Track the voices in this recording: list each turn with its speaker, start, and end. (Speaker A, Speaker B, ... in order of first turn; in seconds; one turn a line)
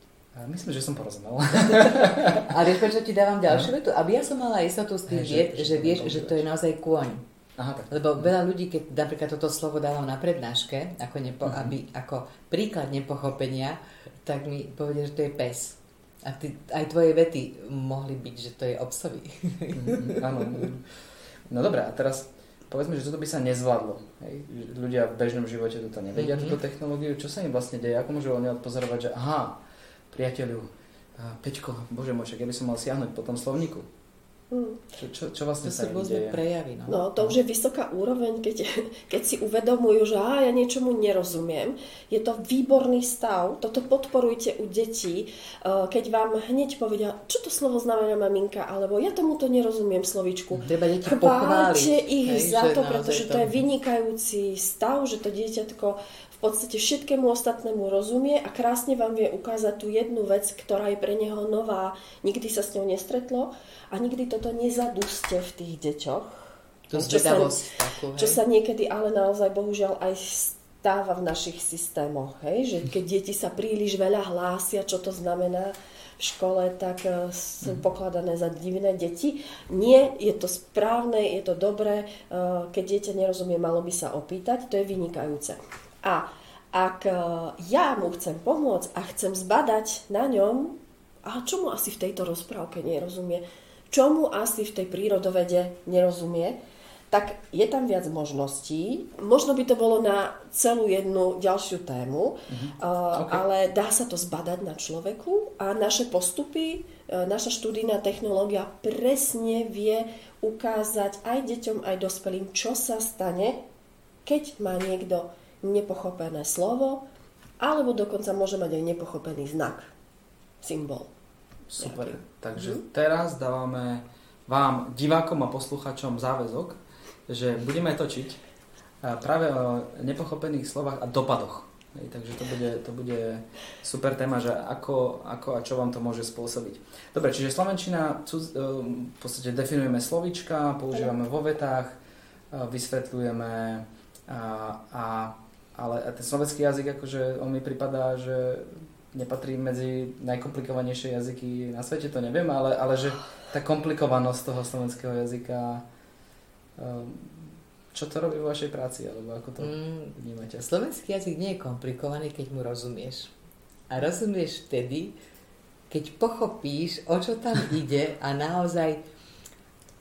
Speaker A: 0.3-2.5
Speaker B: 2.0-7.2
Speaker A: 5.1-6.4
Speaker A: 7.6-8.3
Speaker B: 7.9-20.7
Speaker A: 11.4-11.7
Speaker A: 19.7-20.8
Speaker A: 21.5-29.6
Speaker B: 26.1-26.6
Speaker A: 30.1-33.9
Speaker C: 34.5-34.9
Speaker A: 35.0-36.4
Speaker B: 35.6-37.2
Speaker C: 36.9-67.6
Speaker B: 50.6-53.6
Speaker B: 66.9-68.4
Speaker C: 68.2-96.6
Speaker C: 97.1-113.6
Speaker A: 102.5-103.4
Speaker C: 114.2-117.0
Speaker C: 117.6-119.9
Speaker C: 120.6-121.1
Speaker A: 121.7-128.4
Speaker C: 121.8-122.8
Speaker A: 129.0-141.9
Speaker A: 142.5-155.8
Speaker A: 156.8-160.7
Speaker B: 159.6-163.3
Speaker B: 163.9-165.1
Speaker B: 165.9-169.0